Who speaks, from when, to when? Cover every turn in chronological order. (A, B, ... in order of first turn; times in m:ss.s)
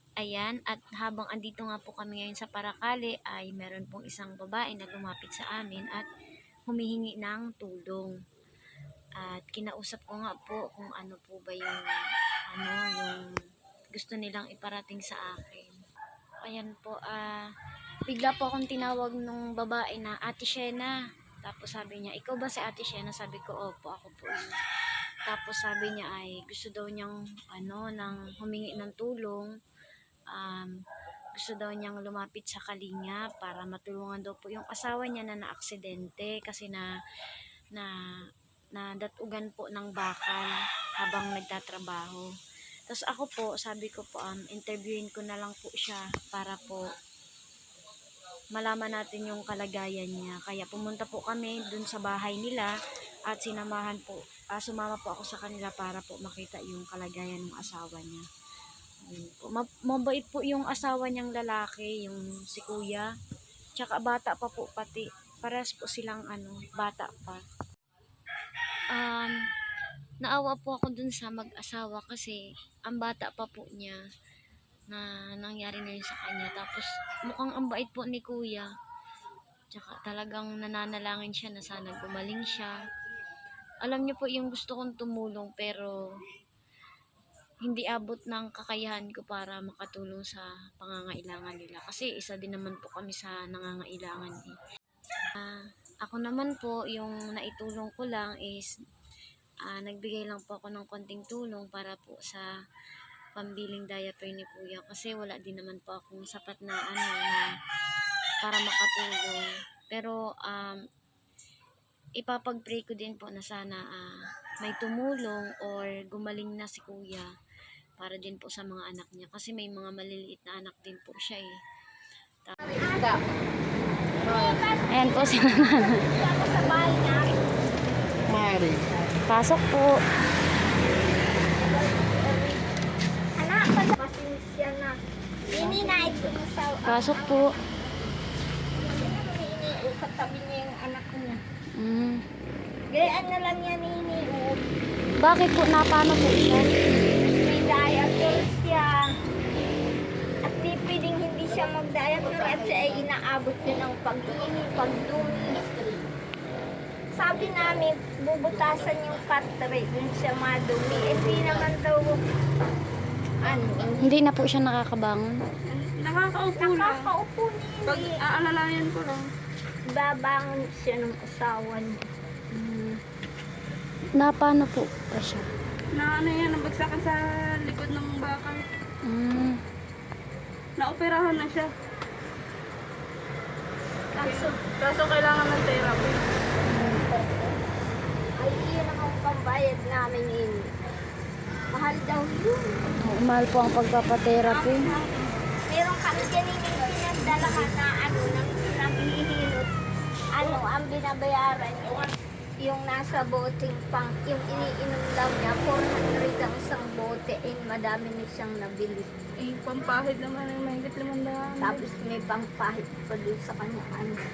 0:00.2-0:06.0 A
0:06.7-0:08.1 A
0:09.2-0:11.9 A
0:12.5-0:13.2 A
0:13.9-0:15.8 A
0:16.4-0:17.4 A
0:18.1-0:24.5 A
0:25.3-0:29.5 A
0:30.3-0:30.7 A
0:31.4-0:36.8 A
0:38.8-0:42.3 A
0:42.9-0:46.8 A
0:48.6-0:52.7 A
0:53.3-0:58.2 A
0:59.1-1:03.1 A
1:03.8-1:07.4 A
1:08.9-1:09.4 A
1:10.2-1:14.0 A
1:14.9-1:18.7 A
1:19.7-1:22.7 A
1:23.8-1:26.0 A
1:27.6-1:34.5 A
1:35.4-1:38.7 A
1:39.7-1:42.4 A
1:43.4-1:47.5 A
1:48.4-1:49.4 A
1:49.9-1:50.8 A
1:52.2-1:57.3 A
1:58.0-2:01.5 A
2:02.7-2:03.2 B
2:04.2-2:07.4 B
2:04.9-2:06.0 A
2:08.3-2:08.6 A
2:09.3-2:09.9 A
2:11.4-2:12.6 B
2:13.4-2:15.0 B
2:15.5-2:17.4 B
2:16.8-2:17.5 A
2:18.8-2:21.4 B
2:21.8-2:22.2 A
2:22.9-2:24.6 B
2:25.2-2:26.7 A
2:27.2-2:29.0 B
2:30.4-2:35.6 B
2:37.1-2:42.2 B
2:43.4-2:44.1 B
2:44.0-2:45.4 A
2:45.7-2:47.0 C
2:46.6-2:48.2 B
2:47.9-2:49.3 C
2:49.9-2:52.0 B
2:52.5-2:53.0 A
2:54.2-2:55.5 A
2:55.9-2:58.6 C
2:59.0-2:59.6 A
3:00.8-3:01.7 C
3:04.1-3:04.6 B
3:04.2-3:06.2 C
3:06.7-3:07.0 A
3:06.8-3:07.6 B
3:08.4-3:10.7 B
3:11.7-3:12.7 B
3:13.0-3:14.9 A
3:14.5-3:15.5 C
3:15.7-3:19.7 B
3:17.2-3:17.7 A
3:20.3-3:22.1 B
3:22.6-3:29.1 B
3:29.4-3:31.8 C
3:31.6-3:34.1 B